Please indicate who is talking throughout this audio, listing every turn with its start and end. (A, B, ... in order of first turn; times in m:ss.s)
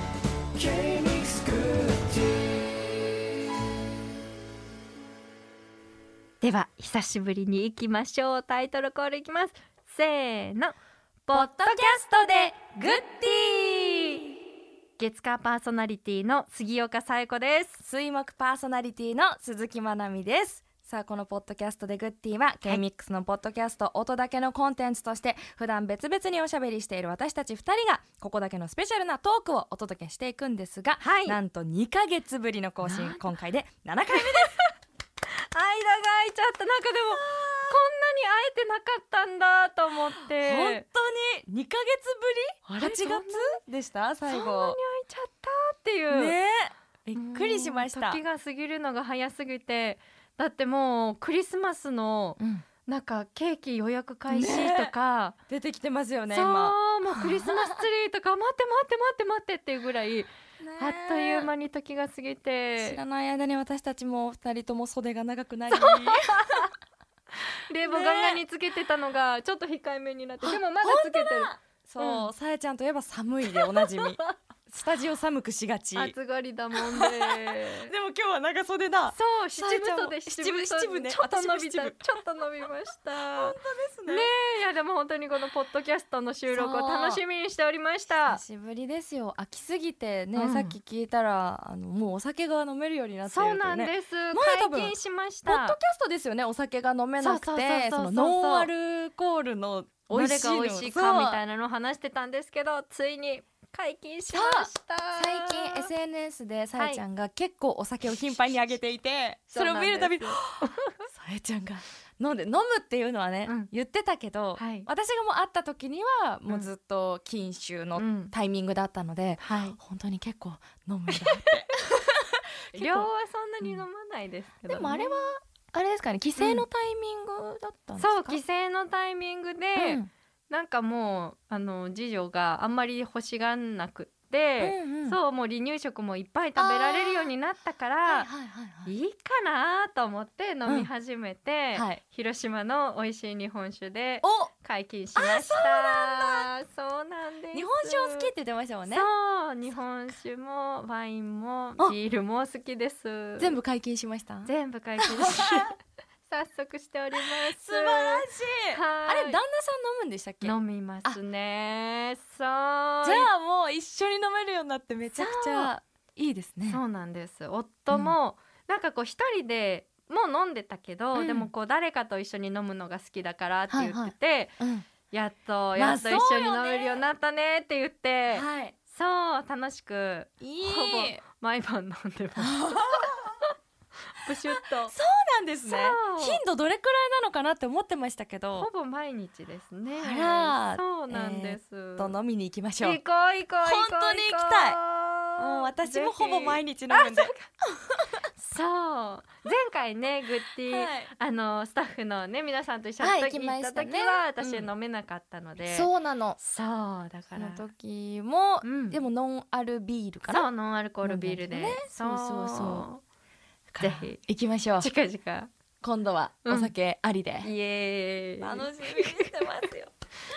0:00.5-0:02.8 A
0:06.4-0:10.8 B
0:11.3-0:14.0 B
0:11.3-0:13.8 C
0:15.0-0:17.8 B
0:17.8-0:34.5 C
0:31.0-0:31.4 B
0:32.8-0:33.3 B
0:34.1-0:34.7 B
0:35.5-0:40.8 B
0:37.1-0:37.8 C
0:39.9-0:44.8 C
0:42.7-0:43.6 B
0:44.3-0:46.4 B
0:46.1-0:48.2 C
0:47.1-0:55.4 B
0:52.4-0:52.6 C
0:54.3-0:54.9 C
0:55.5-0:57.8 C
0:56.3-1:03.0 B
1:00.6-1:01.5 C
1:02.8-1:06.7 C
1:05.7-1:06.7 B
1:07.7-1:12.3 B
1:07.8-1:08.4 C
1:10.4-1:16.1 C
1:13.5-1:14.3 B
1:16.0-1:17.9 B
1:17.8-1:22.1 C
1:19.1-1:28.4 B
1:23.1-1:24.3 C
1:26.5-1:27.2 C
1:28.2-1:34.9 C
1:30.3-1:30.8 B
1:33.2-1:35.8 B
1:35.4-1:41.4 C
1:37.2-1:38.7 B
1:40.1-1:45.9 B
1:44.3-2:03.1 C
1:46.8-1:47.0 B
1:49.5-1:51.0 B
1:53.4-1:53.7 B
1:54.6-1:54.9 B
1:57.9-1:58.3 B
1:59.4-1:59.8 B
2:01.1-2:01.8 B
2:02.7-2:05.3 B
2:04.7-2:08.4 C
2:06.4-2:06.7 B
2:08.0-2:18.3 B
2:09.8-2:10.1 C
2:14.6-2:15.2 C
2:16.6-2:17.3 C
2:18.1-2:18.9 C
2:18.8-2:28.3 B
2:20.6-2:20.9 C
2:21.7-2:22.0 C
2:24.2-2:24.5 C
2:25.2-2:26.5 C
2:27.5-2:29.1 C
2:28.9-2:33.6 B
2:33.4-2:35.7 C
2:34.5-2:35.8 B
2:36.3-2:39.4 B
2:37.4-2:41.2 C
2:40.4-2:43.3 B
2:43.0-2:46.8 C
2:45.1-2:45.7 B
2:46.7-2:54.6 B
2:47.9-2:48.2 C
2:51.2-2:51.5 C
2:53.7-2:54.8 C
2:55.1-3:03.5 B
2:55.8-2:57.0 C
2:58.3-2:58.8 C
3:00.4-3:01.2 C
3:02.4-3:03.4 C
3:04.2-3:04.9 B
3:04.5-3:08.7 C
3:05.6-3:06.4 B
3:08.6-3:12.2 B
3:09.9-3:13.0 C
3:12.8-3:17.4 B
3:13.6-3:14.8 C
3:15.4-3:18.2 C
3:18.3-3:27.7 B
3:20.7-3:21.1 C
3:23.0-3:24.7 C
3:25.6-3:26.4 C
3:27.4-3:30.5 C
3:28.6-3:29.0 B
3:30.3-3:33.0 B
3:31.0-3:32.9 C
3:33.7-3:34.9 C
3:33.8-3:34.2 B
3:34.8-3:35.5 B
3:35.8-3:37.5 C
3:36.4-3:36.7 B
3:37.4-3:39.5 B
3:38.4-3:39.9 C